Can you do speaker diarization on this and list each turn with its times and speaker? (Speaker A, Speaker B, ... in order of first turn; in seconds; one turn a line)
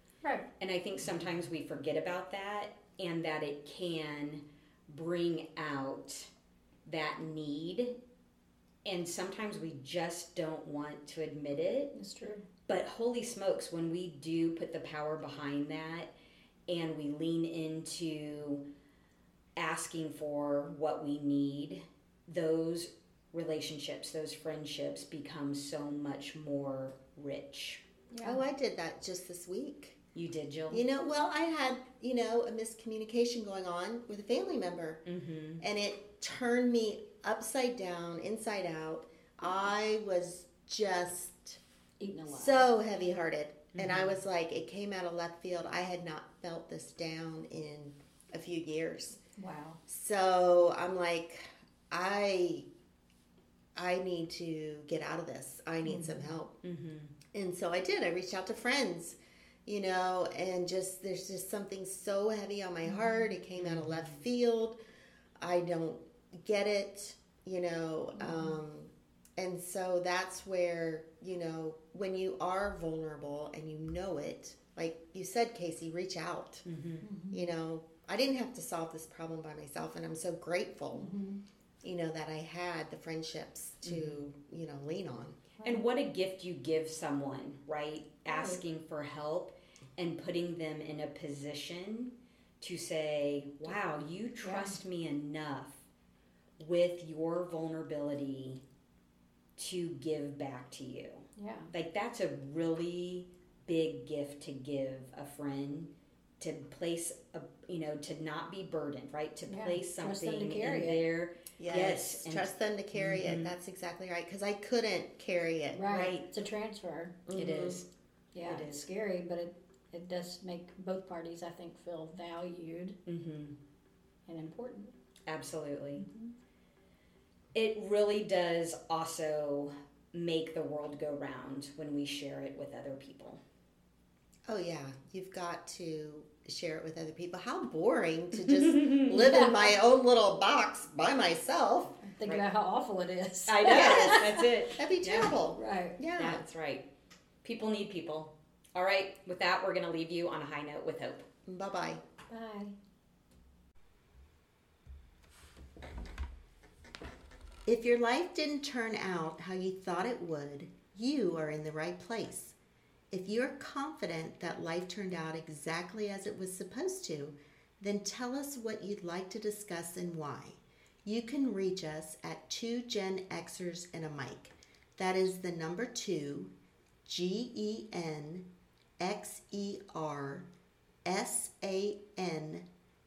Speaker A: 0.6-6.3
Speaker A: 6.9-8.0
Speaker A: 8.8-11.9
Speaker B: 11.9-12.4
Speaker A: 12.7-16.1
Speaker A: 16.7-18.6
Speaker A: 19.6-27.8
Speaker B: 28.1-28.4
Speaker C: 28.2-30.0
Speaker A: 30.1-30.9
Speaker C: 30.7-35.0
Speaker A: 35.1-35.6
Speaker C: 35.6-41.6
Speaker B: 42.0-42.7
Speaker C: 42.3-49.2
Speaker A: 43.8-44.2
Speaker B: 49.4-49.8
Speaker C: 49.9-52.7
Speaker C: 53.8-56.6
Speaker B: 55.9-56.3
Speaker A: 56.6-57.1
Speaker C: 57.3-64.8
Speaker B: 62.9-63.2
Speaker A: 63.6-64.2
Speaker C: 65.4-76.6
Speaker B: 68.2-68.6
Speaker A: 76.7-77.0
Speaker B: 77.0-77.4
Speaker C: 77.3-81.1
Speaker B: 81.0-81.4
Speaker C: 81.8-85.4
Speaker A: 83.8-84.2
Speaker A: 85.6-95.8
Speaker B: 88.3-88.6
Speaker B: 94.4-94.8
Speaker A: 96.6-98.6
Speaker A: 99.6-113.5
Speaker B: 101.4-101.7
Speaker B: 109.5-111.0
Speaker C: 111.6-116.2
Speaker B: 115.7-117.2
Speaker C: 117.3-117.8
Speaker A: 117.3-117.9
Speaker B: 118.3-123.0
Speaker A: 118.4-118.9
Speaker A: 123.1-123.6
Speaker B: 124.3-124.9
Speaker A: 125.3-126.1
Speaker B: 126.0-126.3
Speaker A: 127.5-133.4
Speaker C: 134.5-142.0
Speaker A: 138.4-139.1
Speaker B: 139.1-139.8
Speaker B: 142.0-144.5
Speaker A: 143.5-145.4
Speaker C: 143.7-146.4
Speaker B: 145.5-146.0
Speaker A: 146.1-146.8
Speaker A: 147.4-151.2
Speaker C: 151.5-152.0
Speaker B: 152.3-152.7
Speaker C: 157.7-162.6
Speaker C: 163.1-176.5
Speaker C: 177.1-178.5
Speaker C: 179.0-180.5
Speaker C: 181.1-182.7